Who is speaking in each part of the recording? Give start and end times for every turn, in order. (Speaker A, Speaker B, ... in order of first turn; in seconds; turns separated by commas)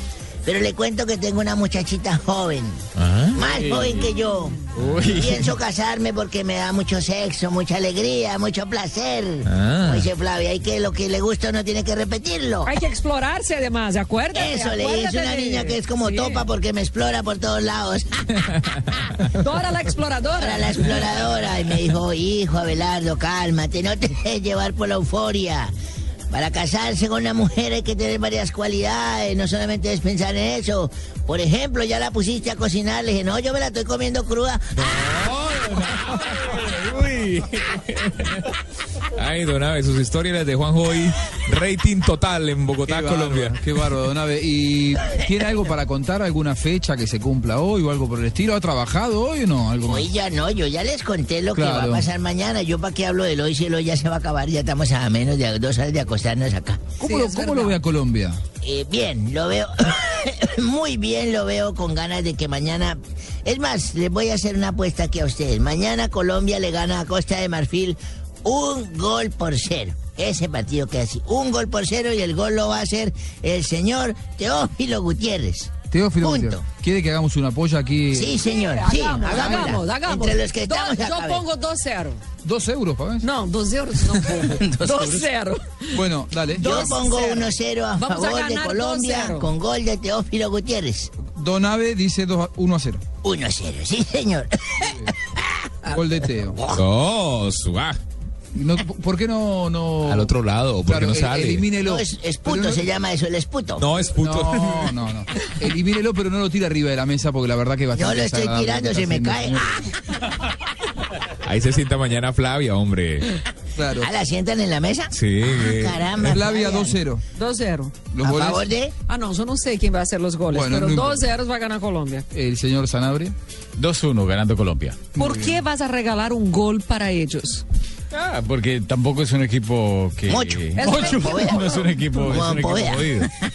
Speaker A: 0.5-2.8, Speaker B: 3.0-3.4, Speaker A: 3.3-12.7, Speaker C: 3.5-3.9, Speaker C: 4.8-5.4, Speaker B: 9.5-10.0, Speaker D: 12.6-16.4, Speaker A: 14.3-18.3, Speaker D: 19.4-21.1, Speaker A: 20.4-25.7, Speaker A: 26.3-34.6, Speaker B: 34.8-38.4, Speaker B: 39.2-43.5, Speaker E: 42.9-50.1, Speaker A: 49.8-56.9, Speaker E: 51.5-52.0, Speaker E: 57.0-58.4, Speaker D: 57.0-57.8, Speaker A: 58.6-76.6, Speaker E: 75.9-78.3, Speaker A: 78.1-81.4, Speaker D: 78.4-82.2, Speaker E: 79.3-79.7, Speaker E: 82.4-83.2, Speaker D: 83.2-85.9, Speaker A: 84.8-85.1, Speaker E: 85.9-86.7, Speaker D: 86.5-89.5, Speaker A: 86.6-91.1, Speaker E: 91.3-93.0, Speaker A: 93.2-95.9, Speaker E: 95.9-96.6, Speaker B: 96.7-98.0, Speaker E: 98.5-102.8, Speaker B: 100.0-101.7, Speaker A: 101.8-103.8, Speaker B: 103.8-104.9, Speaker E: 104.2-109.6, Speaker A: 107.9-109.8, Speaker B: 111.5-113.2, Speaker E: 113.8-114.1, Speaker A: 114.0-117.0, Speaker B: 115.1-116.0, Speaker E: 116.2-117.2, Speaker D: 117.3-118.0, Speaker E: 118.1-118.6, Speaker A: 118.2-118.9, Speaker D: 119.1-122.2, Speaker E: 120.5-121.2, Speaker E: 122.3-123.3, Speaker C: 123.8-125.1, Speaker E: 125.1-125.5, Speaker D: 125.1-127.6, Speaker C: 128.1-133.3, Speaker A: 130.3-133.3, Speaker D: 130.8-131.9